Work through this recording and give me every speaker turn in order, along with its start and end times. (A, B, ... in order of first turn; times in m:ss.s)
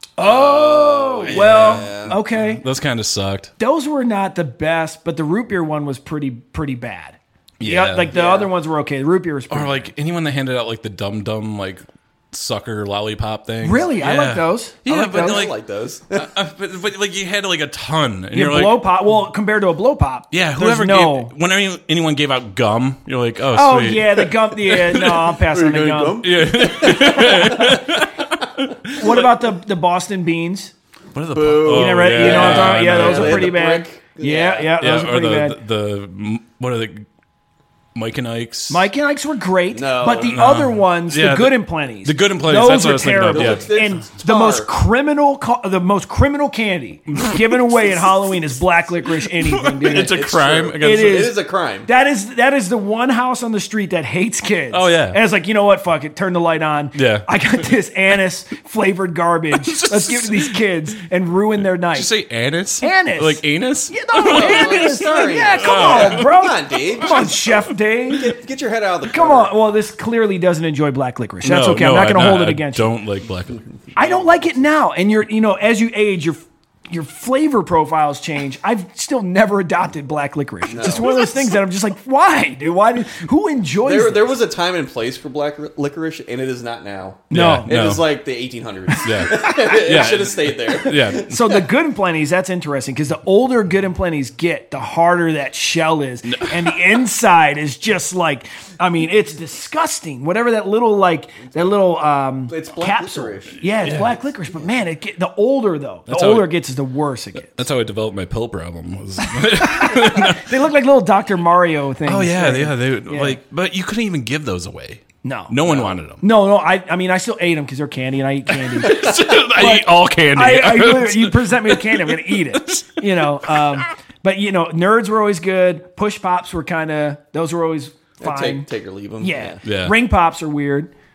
0:00.2-0:02.6 A
0:00.2-0:02.2 B
0:01.3-0:03.5 C
0:03.6-0:09.9 A
0:07.6-0:08.1 C
0:08.1-0:08.5 B
0:09.5-0:15.6 C
0:13.6-0:15.5 A
0:15.1-0:16.3 B
0:16.1-0:18.8 C
0:18.3-0:21.3 A
0:20.3-0:25.4 C
0:23.5-0:26.3 A
0:25.4-0:27.9 B
0:26.2-0:29.2 C
0:28.9-0:30.7 A
0:31.1-0:33.5 C
0:31.3-0:34.8 B
0:31.7-0:35.6 A
0:34.8-0:37.0 C
0:37.9-0:38.9 C
0:38.7-0:50.2 A
0:39.7-0:40.4 B
0:40.2-0:43.7 C
0:43.3-0:44.7 B
0:49.4-0:51.3 C
0:49.8-0:51.9 B
0:50.8-1:02.1 A
0:54.7-0:55.2 C
0:56.9-0:57.3 C
0:59.5-1:00.6 C
1:01.9-1:06.5 C
1:02.8-1:08.3 A
1:04.2-1:07.4 B
1:08.1-1:09.5 B
1:09.1-1:12.9 A
1:11.4-1:13.6 C
1:14.0-1:24.4 A
1:14.0-1:14.5 B
1:20.7-1:21.4 B
1:23.8-1:31.6 B
1:27.3-1:27.7 A
1:27.3-1:28.0 C
1:28.9-1:29.8 A
1:29.0-1:31.4 C
1:31.0-1:47.6 A
1:36.3-1:36.8 C
1:42.5-1:44.1 B
1:43.8-1:44.2 C
1:46.1-1:46.5 C
1:47.5-1:50.5 C
1:49.2-1:53.4 A
1:52.0-1:56.2 C
1:55.2-1:55.5 A
1:55.6-1:56.0 B
1:56.2-2:08.7 A
1:58.5-2:03.8 C
2:08.2-2:09.6 B
2:09.2-2:10.9 A
2:09.6-2:09.9 C